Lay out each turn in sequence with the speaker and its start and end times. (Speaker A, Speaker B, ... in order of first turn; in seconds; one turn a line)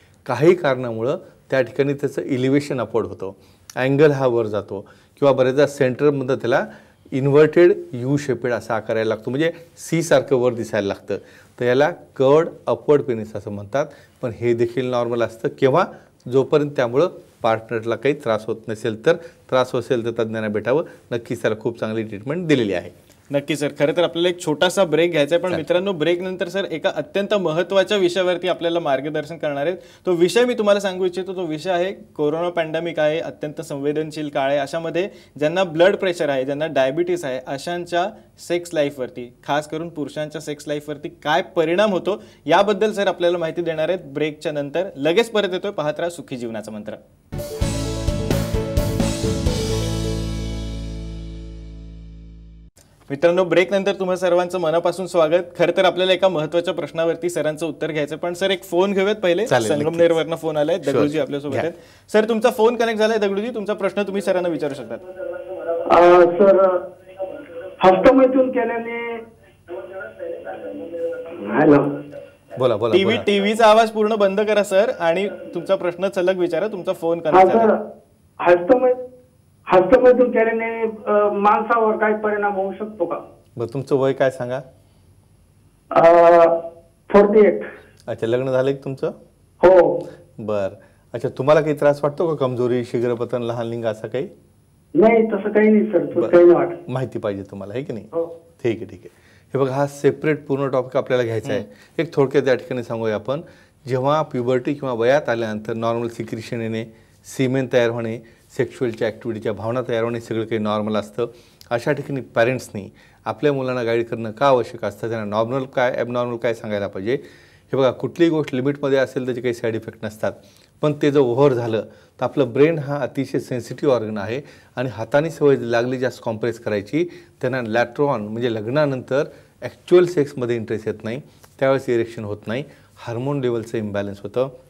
Speaker A: 0.2-22.9
Speaker B: 23.3-47.0
Speaker B: 53.1-65.0
Speaker A: 59.5-60.2
Speaker A: 60.8-61.7
Speaker C: 65.8-66.9
Speaker C: 67.8-69.2
Speaker C: 70.2-72.0
Speaker A: 72.6-73.2
Speaker B: 72.9-77.7
Speaker C: 77.3-77.8
Speaker C: 78.4-79.0
Speaker C: 79.7-83.2
Speaker A: 83.6-84.6
Speaker C: 85.9-87.7
Speaker A: 88.1-89.1
Speaker C: 89.6-90.1
Speaker A: 90.4-94.3
Speaker C: 94.9-96.8
Speaker A: 96.2-134.5